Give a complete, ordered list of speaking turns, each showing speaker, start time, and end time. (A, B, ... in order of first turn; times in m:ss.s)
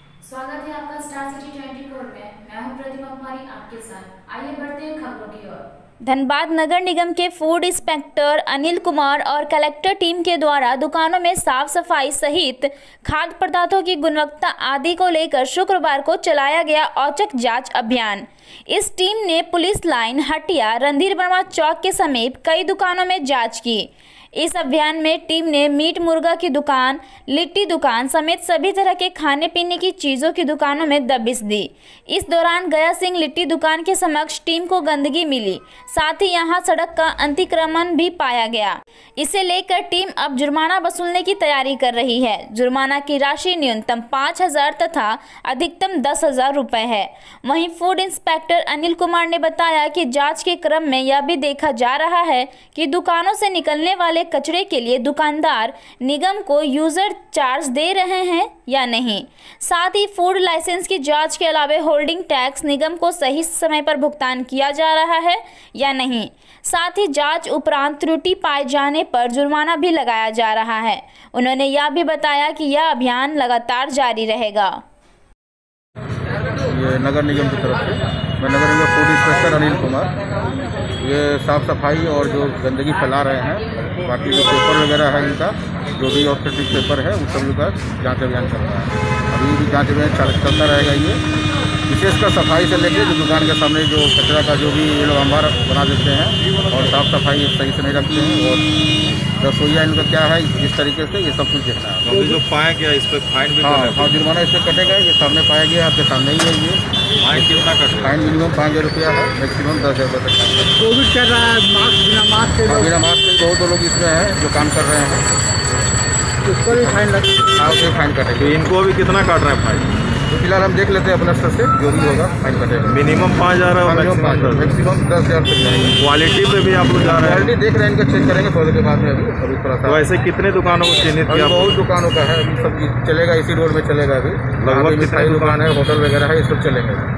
0:00.2-0:05.6 A
0:00.3-0:03.3 B
0:04.0-0:04.9 B
0:06.0-1:14.8 B
1:16.6-1:20.1 C
1:21.0-1:31.2 C
1:31.9-1:38.6 C
1:39.4-1:42.1 C
1:42.0-1:44.1 D
1:42.1-1:42.4 E
1:43.6-1:50.7 C
1:47.2-1:48.3 D
1:50.8-1:52.9 E
1:52.6-1:55.2 C
1:56.4-1:57.4 E
1:56.7-1:57.0 C
1:57.6-1:58.6 C
1:58.4-1:59.9 D
2:00.3-2:03.0 C
2:02.9-2:04.8 D
2:03.8-2:06.0 C
2:06.0-2:07.5 D
2:07.0-2:10.1 C
2:09.8-2:11.8 D
2:11.3-2:17.1 C
2:14.6-2:15.6 D